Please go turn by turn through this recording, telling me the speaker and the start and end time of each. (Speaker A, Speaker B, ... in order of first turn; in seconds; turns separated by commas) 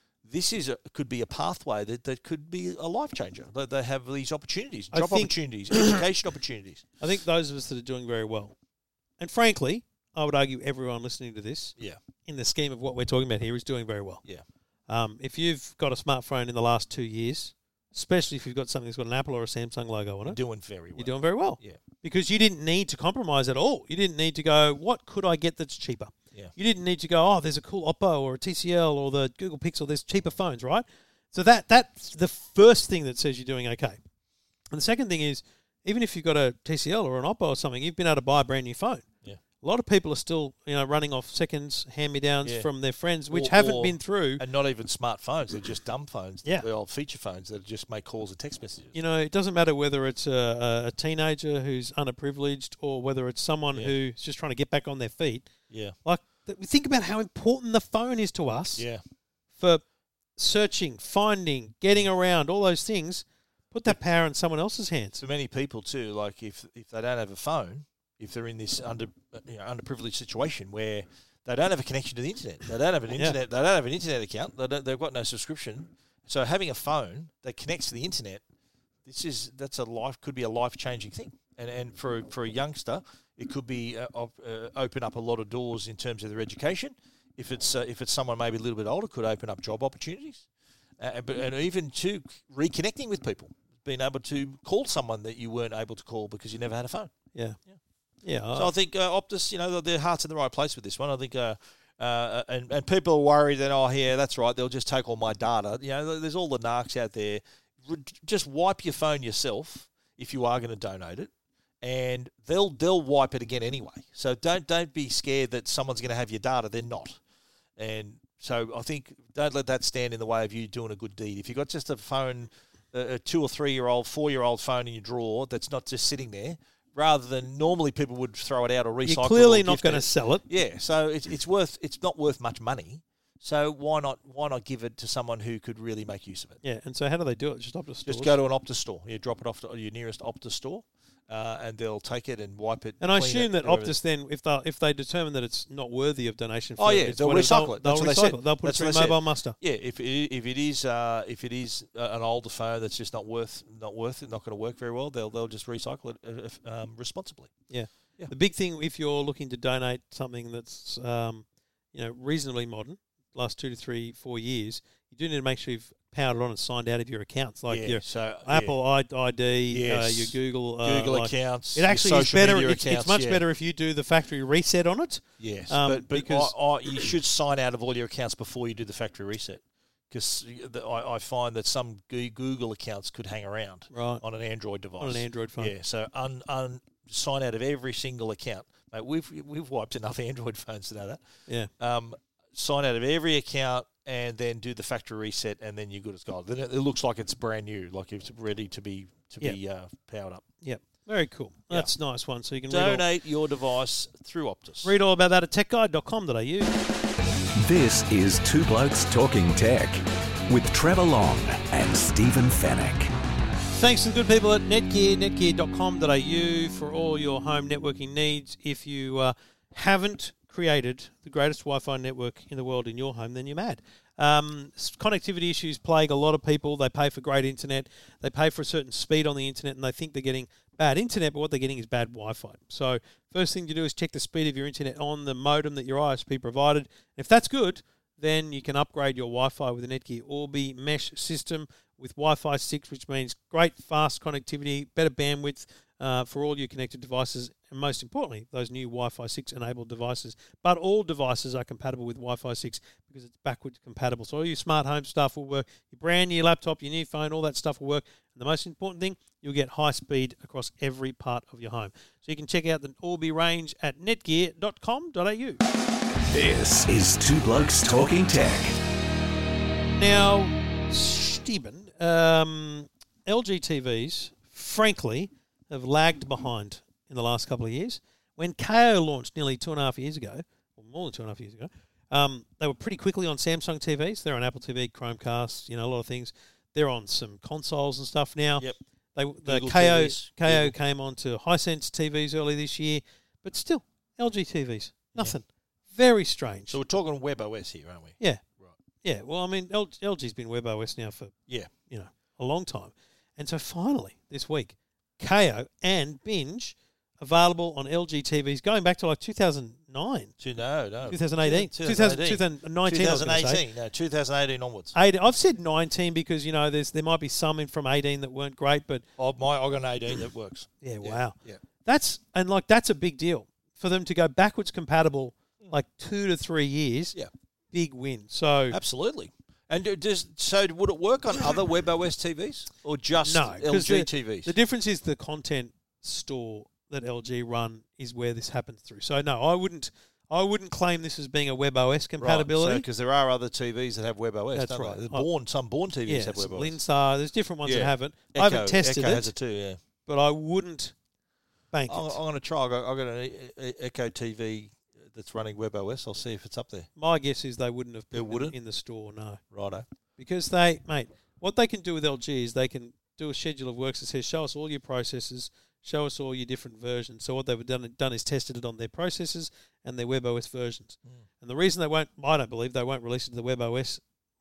Speaker A: 0.2-6.9, Speaker B: 4.9-6.0, Speaker B: 7.0-8.6, Speaker B: 9.2-14.2, Speaker B: 14.9-20.4, Speaker A: 20.3-21.8, Speaker B: 20.9-34.0, Speaker B: 34.7-39.0, Speaker B: 39.6-44.4, Speaker A: 42.4-42.7, Speaker A: 43.3-49.0, Speaker B: 48.9-55.5, Speaker A: 55.7-56.0, Speaker B: 56.0-58.9, Speaker A: 58.8-59.0, Speaker B: 59.5-59.8, Speaker B: 60.4-65.2, Speaker A: 65.2-78.4, Speaker A: 79.0-90.5, Speaker A: 91.0-97.1, Speaker B: 98.2-98.7, Speaker A: 98.5-111.3, Speaker A: 111.8-117.2, Speaker A: 117.8-136.6, Speaker B: 129.1-130.4, Speaker B: 136.6-138.3, Speaker A: 138.1-143.9, Speaker B: 143.0-149.6, Speaker A: 146.8-157.5, Speaker B: 157.7-176.6, Speaker A: 167.7-168.8, Speaker A: 169.7-173.4, Speaker A: 175.4-191.2, Speaker B: 183.9-184.2, Speaker B: 185.0-185.7, Speaker A: 191.8-200.4, Speaker B: 200.6-203.1, Speaker A: 202.7-204.9, Speaker B: 204.8-206.7, Speaker C: 207.6-213.1, Speaker B: 213.7-265.6, Speaker C: 266.3-268.8, Speaker B: 269.9-296.8, Speaker A: 289.4-290.7, Speaker A: 296.7-298.8, Speaker B: 299.0-301.3, Speaker B: 301.9-310.3, Speaker A: 310.4-314.9, Speaker B: 311.1-313.6, Speaker B: 314.9-319.1, Speaker A: 319.2-321.6, Speaker B: 320.8-327.1, Speaker B: 327.7-328.8, Speaker A: 328.7-334.5, Speaker B: 333.2-342.8, Speaker A: 342.2-346.8, Speaker B: 344.5-345.3, Speaker B: 346.1-349.3, Speaker A: 347.6-349.8, Speaker B: 350.1-350.9, Speaker B: 351.7-352.2, Speaker A: 351.9-356.9, Speaker B: 357.0-359.4, Speaker A: 358.1-358.6, Speaker A: 359.5-359.9, Speaker B: 360.2-374.0